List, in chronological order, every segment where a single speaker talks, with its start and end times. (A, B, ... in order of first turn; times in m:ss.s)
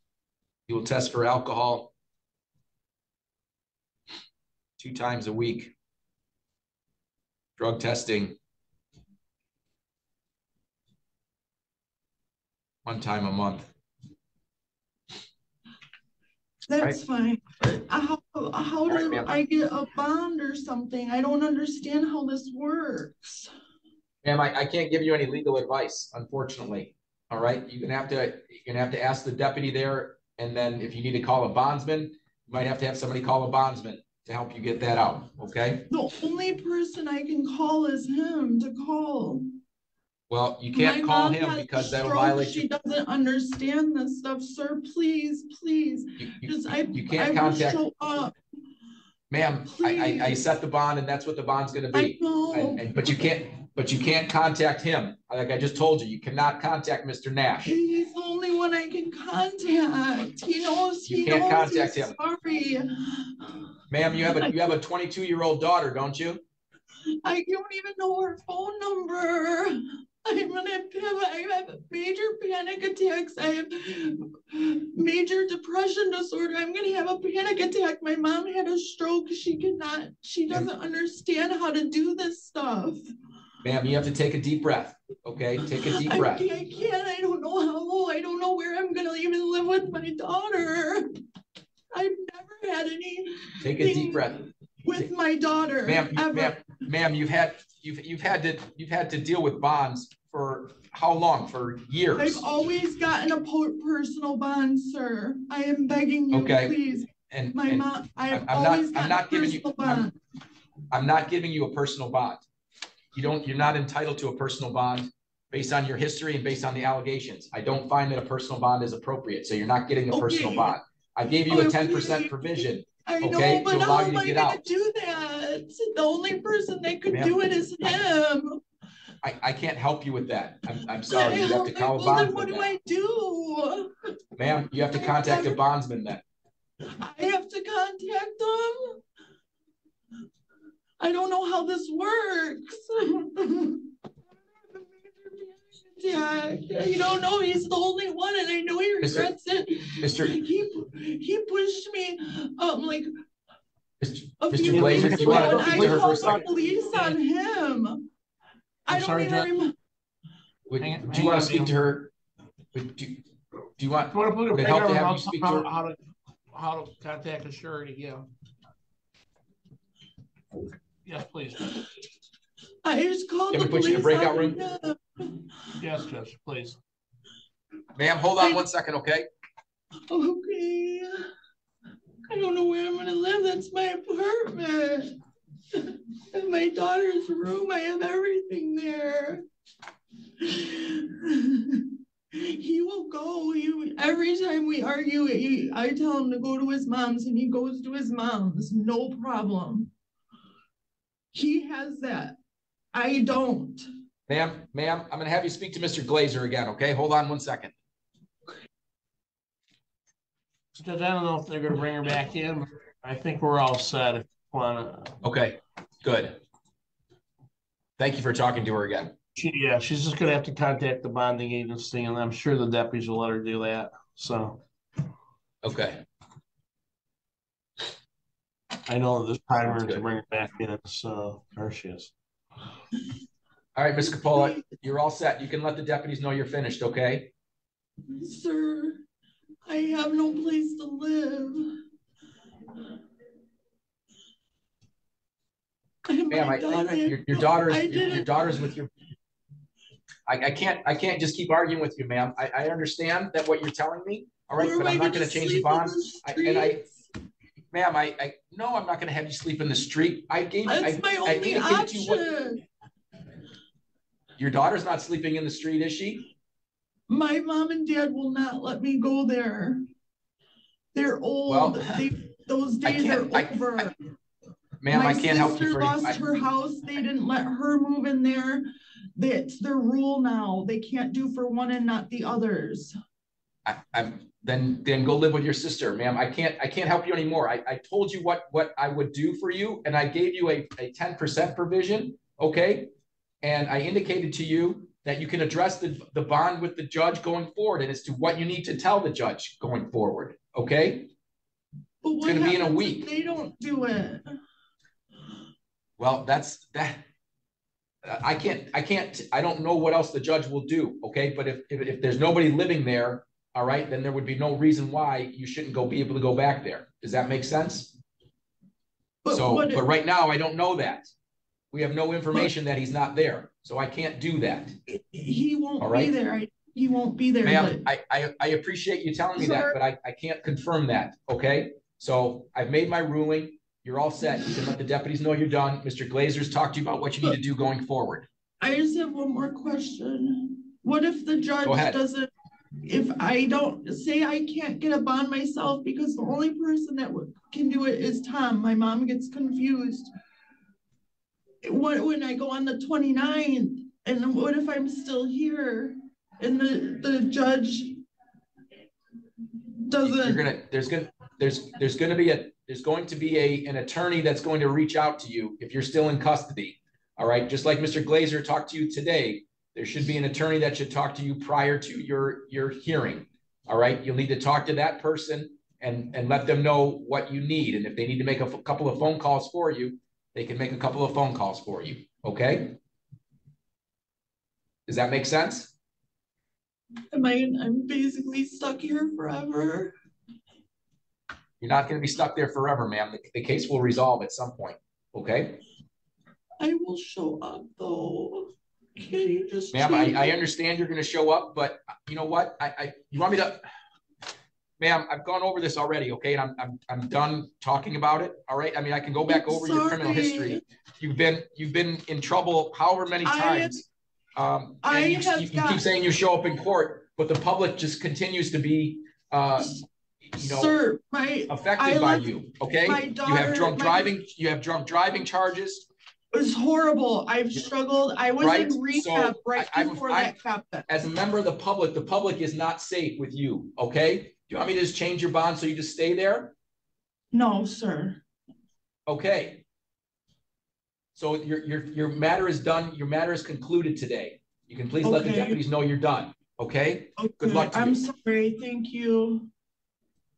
0:00.7-0:01.9 A
0:04.8-0:05.7 A
0:07.6-0:08.4 A
0:12.8-0:13.7 A
0:16.7-0:23.5 B
0:18.9-0:19.4 A
0:24.2-0:35.9 A
0:35.9-0:39.4 B
0:40.3-0:42.6 A
0:40.7-0:48.3 B
0:46.2-0:47.8 A
0:49.3-0:57.7 A
0:49.6-0:50.4 B
0:51.9-0:53.2 B
0:57.6-1:03.6 B
1:01.1-1:02.2 A
1:03.9-1:06.4 A
1:04.1-1:04.7 B
1:07.2-1:23.0 B
1:23.6-1:26.4 A
1:26.0-1:31.0 B
1:31.9-1:34.3 B
1:33.6-1:35.0 A
1:34.8-1:36.6 B
1:35.8-1:42.4 A
1:42.2-1:50.1 B
1:46.3-1:46.8 A
1:47.3-1:50.1 A
1:50.9-1:52.4 A
1:53.1-2:04.6 A
2:00.1-2:00.8 B
2:01.5-2:08.6 B
2:07.1-2:07.4 A
2:09.2-2:12.6 A
2:11.1-2:13.9 B
2:14.4-2:16.2 A
2:14.9-2:15.6 B
2:16.8-2:19.0 B
2:21.0-2:23.9 B
2:24.6-2:33.1 B
2:29.0-2:29.3 A
2:30.0-2:30.4 A
2:34.0-2:36.4 A
2:34.4-2:38.1 B
2:34.7-2:37.2 C
2:38.9-2:39.7 B
2:38.9-2:39.5 C
2:40.7-2:42.1 A
2:40.8-2:41.7 C
2:42.7-2:43.2 A
2:43.8-2:45.7 A
2:44.1-2:46.0 C
2:46.5-2:48.2 C
2:51.0-2:51.8 C
2:52.8-2:55.7 B
2:53.5-2:54.6 A
2:55.8-2:56.8 C
2:57.9-2:59.2 A
3:00.1-3:01.3 B
3:02.3-3:05.2 B
3:05.7-3:09.4 B
3:10.4-3:19.9 B
3:21.3-3:22.4 B
3:22.9-3:23.8 B
3:24.3-3:27.7 A
3:30.7-3:35.1 C
3:35.2-3:36.4 A
3:38.0-3:39.1 A
3:39.4-3:44.6 C
3:45.6-3:46.0 A
3:48.8-3:52.1 C
3:49.6-3:50.0 A
3:53.7-3:57.3 A
3:54.1-3:54.6 B
3:58.1-3:59.0 B
3:59.6-4:01.8 B
4:06.0-4:08.7 B
4:06.3-4:08.9 A
4:10.2-4:16.8 A
4:14.6-4:16.9 B
4:17.7-4:22.3 A
4:20.6-4:22.6 B
4:24.4-4:26.3 A
4:27.1-4:29.8 B
4:30.9-4:34.0 B
4:31.5-4:32.0 A
4:32.8-4:33.8 A
4:34.8-4:36.2 A
4:34.9-4:42.9 B
4:43.6-4:52.9 A
4:53.4-5:01.1 A
5:02.0-5:04.3 B
5:02.2-5:03.1 A
5:06.0-5:07.0 A
5:08.0-5:18.0 A
5:19.2-5:19.8 B
5:19.3-5:21.1 A
5:21.7-5:24.7 A
5:24.9-5:27.8 B
5:25.8-5:26.1 A
5:27.4-5:38.3 A
5:29.4-5:29.8 B
5:38.6-5:42.3 B
5:41.6-5:42.0 A
5:42.8-5:50.1 B
5:51.6-5:58.0 B
5:59.8-6:00.4 B
6:00.0-6:22.8 A
6:24.8-6:25.7 A
6:27.1-6:29.9 B
6:31.6-6:35.6 A
6:36.6-6:40.3 B
6:39.7-6:43.7 A
6:44.8-6:59.7 A
6:49.2-6:50.6 B
6:53.2-6:53.8 B
6:54.8-6:55.8 B
6:59.6-6:59.8 B
7:00.3-7:00.8 A
7:00.4-7:02.3 B
7:01.5-7:05.9 A
7:02.8-7:04.1 B
7:06.3-7:10.9 B
7:08.4-7:10.3 A
7:10.9-7:16.5 A
7:17.3-7:18.2 B
7:19.1-7:19.6 A
7:21.2-7:28.0 A
7:25.0-7:25.6 B
7:27.2-7:29.5 B